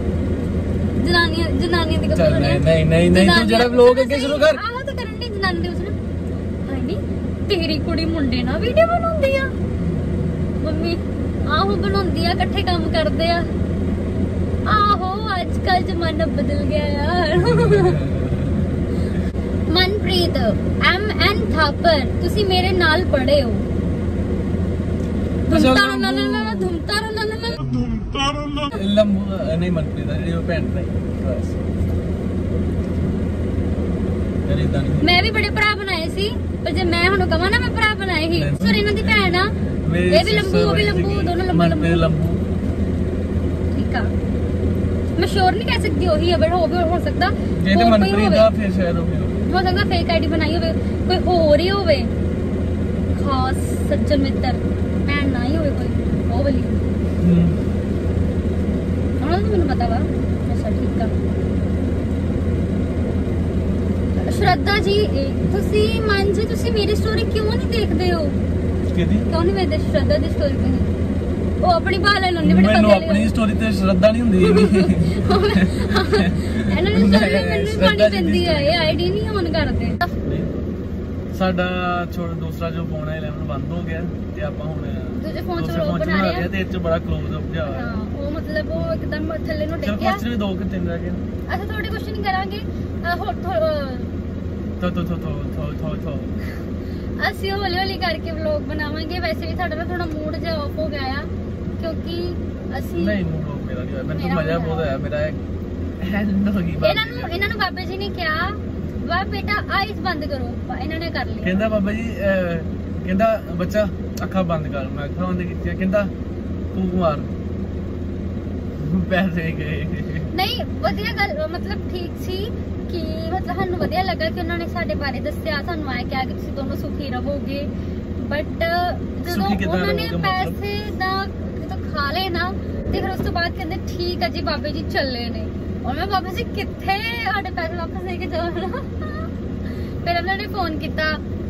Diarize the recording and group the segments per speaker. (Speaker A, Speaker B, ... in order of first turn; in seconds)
Speaker A: 1.0-6.0, 6.6-9.5, 10.6-13.5, 14.7-18.0, 19.7-23.6, 25.5-27.9, 35.0-39.5, 40.1-42.0, 43.7-44.1, 45.2-48.5, 49.5-52.1, 53.1-56.8, 59.2-61.1, 64.2-68.4, 69.3-70.9, 71.6-73.3, 74.4-80.1, 85.2-86.5, 87.7-90.2, 91.5-94.1, 97.2-103.2, 104.1-104.9, 106.8-111.6, 120.3-139.3, 140.0-141.2
Speaker B: 2.1-4.6, 9.8-10.5, 17.4-18.9, 25.5-26.7, 27.8-31.6, 34.5-35.1, 38.3-42.5, 47.6-49.5, 57.2-57.6, 68.9-69.3, 72.4-79.2, 80.2-80.5, 81.3-88.0, 88.8-89.0, 89.8-91.2, 94.8-96.4, 103.0-105.4, 106.0-107.3, 111.4-116.1, 116.7-117.3, 118.8-120.3, 129.3-130.6